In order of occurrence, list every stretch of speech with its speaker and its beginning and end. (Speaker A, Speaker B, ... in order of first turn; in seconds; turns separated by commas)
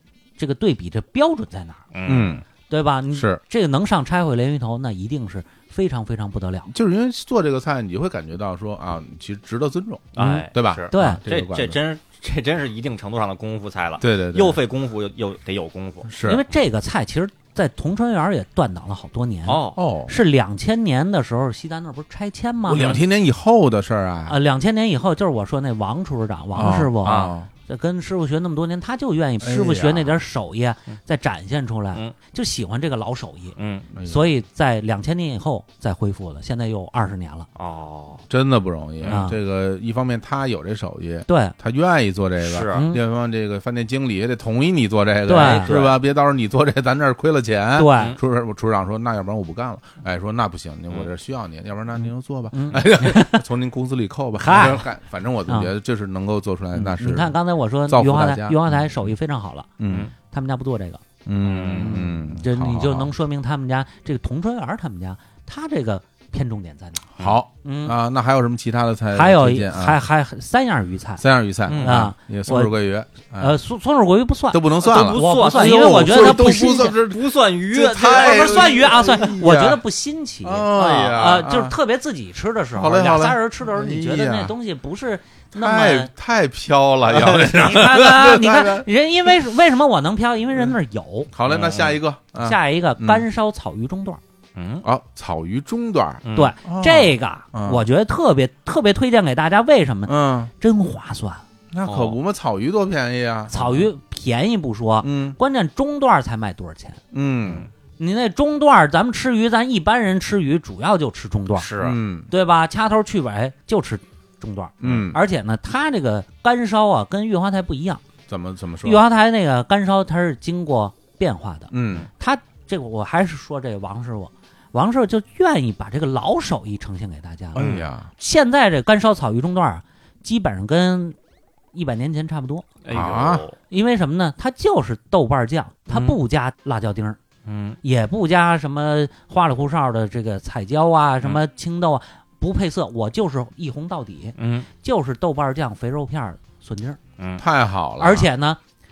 Speaker A: 0.4-1.9, Speaker B: 1.9-2.4, Speaker C: 2.1-2.4, Speaker A: 2.7-6.7, Speaker C: 3.1-3.4, Speaker C: 6.7-11.8, Speaker B: 10.2-16.1, Speaker A: 10.9-11.2, Speaker C: 14.0-14.6, Speaker C: 16.1-16.4, Speaker A: 16.2-23.0, Speaker B: 19.5-19.8, Speaker C: 19.8-20.2, Speaker C: 22.7-24.4, Speaker B: 22.8-23.0, Speaker A: 24.3-37.5, Speaker C: 26.5-27.5, Speaker B: 27.0-27.3, Speaker C: 29.4-30.2, Speaker B: 33.6-33.9, Speaker C: 33.9-34.3, Speaker B: 37.6-38.3, Speaker C: 38.3-59.1, Speaker A: 39.1-39.4, Speaker A: 41.3-41.5, Speaker B: 42.4-42.9, Speaker A: 42.7-43.0, Speaker A: 45.3-45.7, Speaker B: 45.3-46.0, Speaker A: 47.8-48.2, Speaker A: 52.5-53.5, Speaker A: 54.4-54.9, Speaker A: 56.8-59.7, Speaker C: 59.8-60.1, Speaker B: 59.9-60.1, Speaker A: 60.3-61.0, Speaker C: 61.2-63.1, Speaker B: 61.4-62.1, Speaker A: 61.8-67.0, Speaker C: 67.2-70.0, Speaker A: 67.6-68.0, Speaker A: 69.1-71.2, Speaker C: 71.2-73.6, Speaker B: 71.7-72.0, Speaker A: 71.8-72.7, Speaker A: 73.4-77.0, Speaker C: 74.5-79.8, Speaker B: 74.8-79.3, Speaker A: 78.0-86.1, Speaker C: 80.4-81.8, Speaker B: 80.7-81.5, Speaker C: 82.7-84.5, Speaker C: 85.5-88.9, Speaker A: 87.5-91.3, Speaker C: 91.3-93.2, Speaker B: 91.5-92.0, Speaker A: 92.4-94.2, Speaker B: 94.6-94.8, Speaker C: 94.8-97.8, Speaker B: 96.2-96.5, Speaker A: 96.3-101.4, Speaker C: 100.1-100.5, Speaker C: 101.7-103.9, Speaker B: 101.8-102.2, Speaker A: 103.5-107.0, Speaker C: 105.0-105.4, Speaker C: 107.1-107.7, Speaker A: 108.0-111.7, Speaker B: 111.5-112.0, Speaker C: 111.8-112.3, Speaker A: 112.3-118.0, Speaker C: 114.8-115.2, Speaker C: 118.3-119.0, Speaker A: 118.8-131.2, Speaker C: 121.7-122.1, Speaker C: 127.5-128.1, Speaker B: 127.6-127.9, Speaker A: 131.7-132.7, Speaker B: 132.8-133.6, Speaker C: 132.9-133.5, Speaker A: 133.7-137.2, Speaker B: 135.9-136.2, Speaker B: 137.4-137.8, Speaker A: 137.8-147.0, Speaker B: 144.4-144.7, Speaker B: 147.2-147.4, Speaker C: 147.4-148.3, Speaker A: 148.0-148.6